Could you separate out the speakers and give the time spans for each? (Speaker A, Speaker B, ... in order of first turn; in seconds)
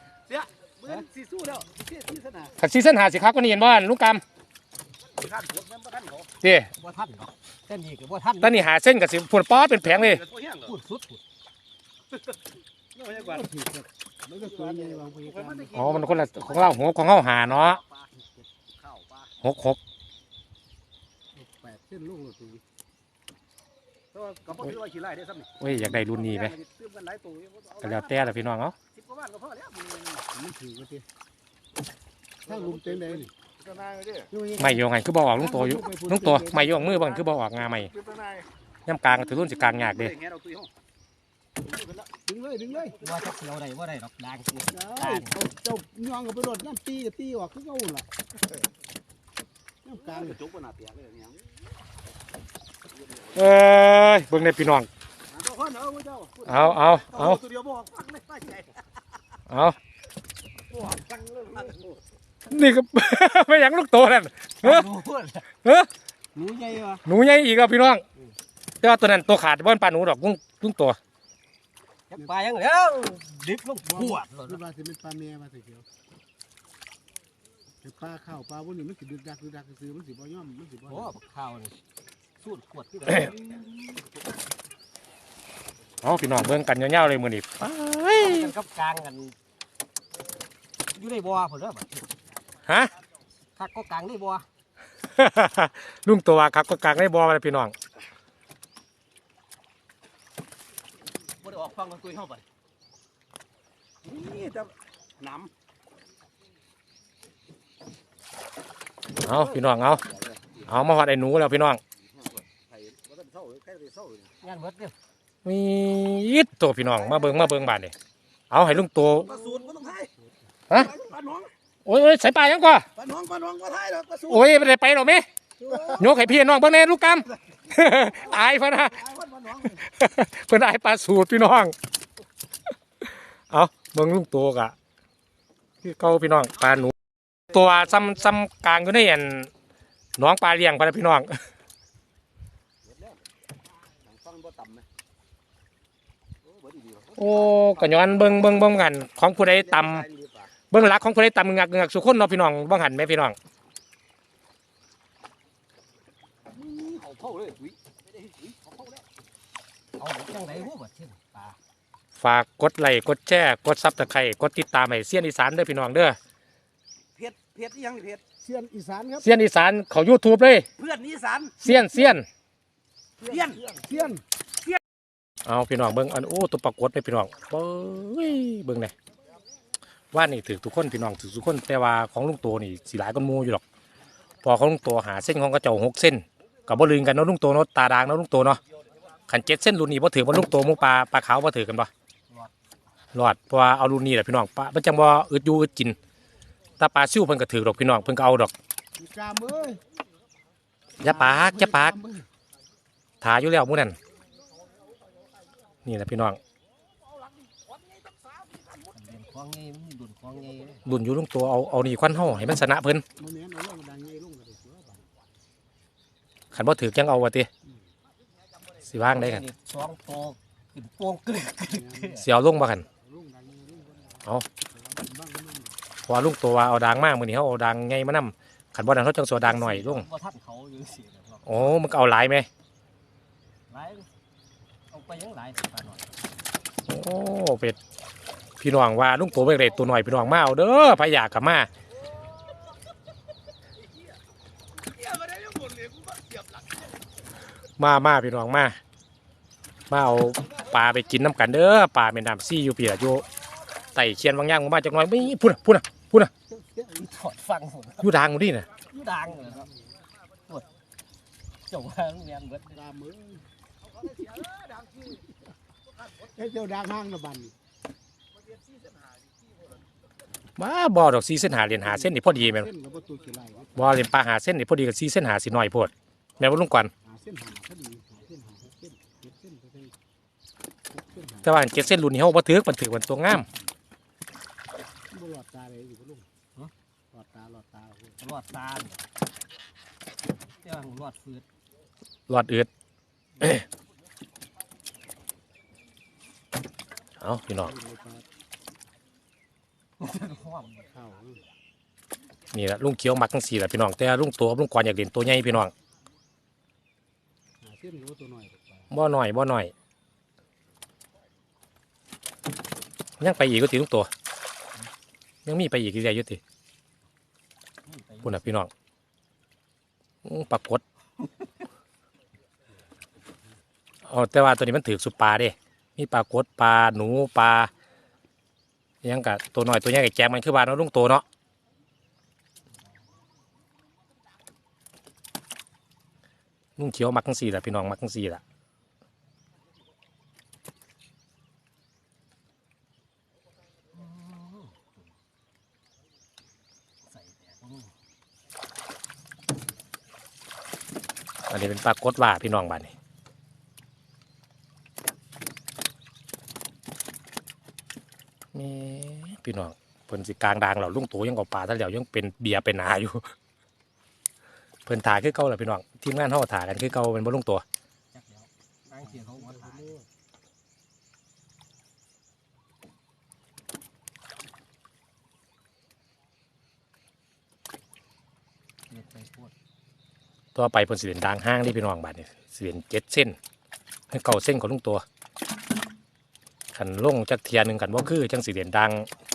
Speaker A: 0.3-2.5, 5.1-6.3, 10.2-10.6, 13.0-13.4, 14.6-15.7, 18.8-19.1, 24.1-27.9, 28.9-30.2, 32.5-34.3, 37.9-38.4, 40.0-40.7, 41.7-42.0, 50.1-51.4, 55.3-58.7, 60.9-61.8, 101.4-102.4, 104.0-105.5, 110.1-110.5, 112.2-114.3, 119.3-120.1, 120.9-121.5, 123.0-124.3, 129.1-129.7, 144.1-144.8, 146.5-148.3, 149.9-150.3, 156.5-159.0, 167.2-168.2, 170.8-171.6, 173.3-173.6, 245.1-246.6, 264.1-265.2
Speaker B: 2.6-4.2, 6.4-6.7, 8.4-10.2, 15.7-17.8, 19.4-19.8, 25.6-26.6, 27.8-28.7, 34.6-37.9, 38.9-40.1, 53.3-54.9, 56.4-57.4, 59.5-59.8, 62.5-64.9, 67.0-68.0, 68.8-71.0, 86.0-88.5, 95.2-97.7, 109.2-110.0, 110.7-111.8, 115.4-117.9, 118.5-119.3, 120.7-120.9, 121.8-122.9, 124.2-129.1, 129.7-131.7, 133.5-134.7, 135.8-136.9, 137.5-139.5, 140.2-141.3, 147.2-150.1, 150.7-153.3, 162.2-166.2, 169.2-170.7, 171.6-172.2, 175.4-178.9, 180.1-183.6, 184.4-188.6, 189.3-191.9, 193.1-196.0, 196.8-198.5, 201.0-202.0, 203.2-203.9, 205.8-206.4, 210.8-213.0, 216.5-217.5, 218.8-219.4, 222.1-222.9, 226.1-230.1, 231.4-232.5, 236.9-237.8, 238.6-241.7, 247.8-248.8, 249.9-253.2, 253.9-256.3, 258.0-258.7, 270.6-272.7, 273.7-276.9, 281.4-283.5, 292.3-292.7, 297.2-297.8, 302.5-305.7, 308.9-309.7, 313.2-314.1, 315.4-316.4, 318.2-318.7, 320.2-320.8, 324.0-327.7, 329.0-331.2, 336.8-338.4, 351.5-352.9, 358.5-363.2, 364.9-367.6, 380.5-383.4, 384.1-385.0, 386.7-389.1
Speaker C: 6.8-8.7, 10.6-11.2, 43.0-45.4, 64.6-65.5, 66.3-67.0, 72.1-74.6, 80.8-81.8, 82.4-83.6, 88.1-89.3, 90.9-92.1, 93.5-94.5, 114.4-114.9, 160.0-161.6, 208.9-210.8, 219.1-222.3, 229.4-231.7, 233.7-234.1, 234.9-236.1, 256.9-258.1, 258.8-259.7, 261.7-262.8, 288.2-289.0, 290.6-291.4, 300.0-300.9, 317.9-318.4, 343.9-345.0, 347.1-347.9, 368.1-369.9, 378.9-379.5
Speaker D: 13.3-15.7, 21.4-22.6, 30.4-31.0, 32.5-33.3, 35.7-36.7, 42.3-42.9, 44.9-48.0, 49.9-50.3, 74.6-75.8, 77.8-80.9, 168.4-169.2, 173.7-174.2, 199.0-199.8, 201.3-202.2, 213.2-215.0, 223.1-224.2, 224.9-225.7, 262.9-263.4, 266.4-267.5, 272.7-273.7, 277.2-279.9, 285.1-286.2, 287.1-288.1, 301.1-301.4, 307.8-308.7